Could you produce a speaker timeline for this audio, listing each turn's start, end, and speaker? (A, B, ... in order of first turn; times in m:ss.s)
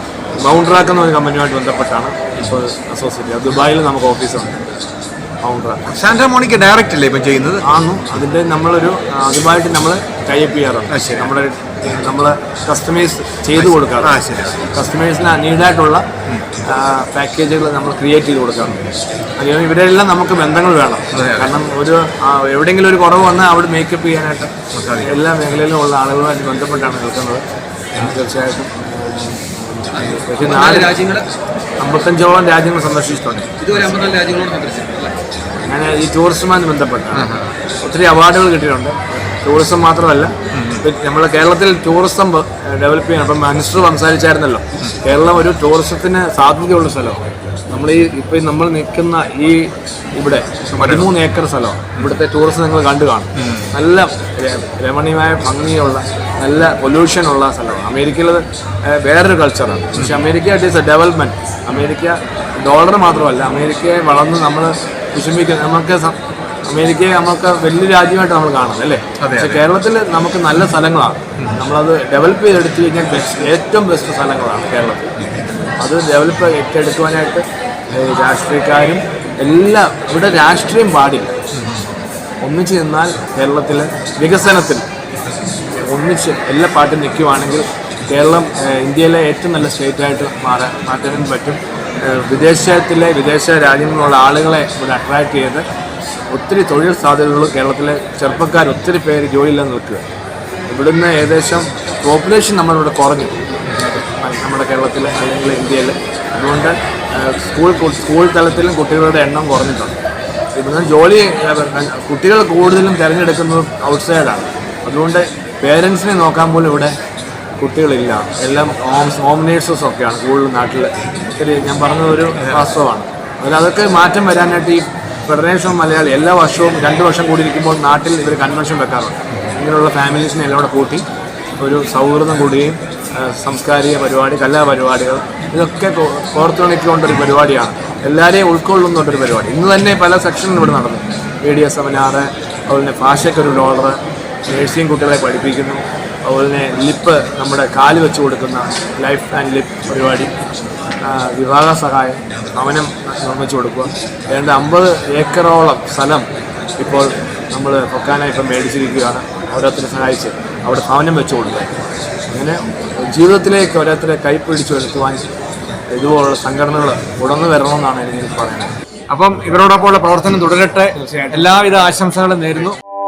0:00.4-0:04.6 A
0:05.4-0:05.8 A
0:05.8-0:07.6 B
0:07.6-0:14.2 A
0:10.9-0:11.3 B
0:13.6-0:14.6 B
0:14.7-0:16.0 A
0:16.6-0:27.4 A
0:21.1-0:21.6 B
0:24.7-0:25.2 B
0:27.9-0:31.1 A
0:30.7-0:31.2 C
0:31.8-0:33.9 A
0:33.6-0:35.2 C
0:35.6-1:06.2 A
0:37.1-0:37.5 B
0:40.5-0:40.8 B
0:50.8-0:51.1 B
0:53.4-0:53.7 B
0:59.9-1:00.2 B
1:06.7-1:15.1 A
1:09.2-1:09.6 B
1:15.8-1:21.3 A
1:21.5-1:21.8 B
1:22.4-1:24.8 A
1:25.7-1:35.6 A
1:36.3-1:40.0 A
1:40.7-1:43.4 A
1:44.0-1:50.0 A
1:50.5-1:56.9 A
1:57.6-2:11.0 A
2:02.4-2:02.7 B
2:11.6-2:30.3 A
2:31.0-2:36.3 A
2:36.8-2:41.7 A
2:42.3-2:45.3 A
2:45.9-2:48.7 A
2:49.1-2:52.8 B
2:50.9-2:51.5 A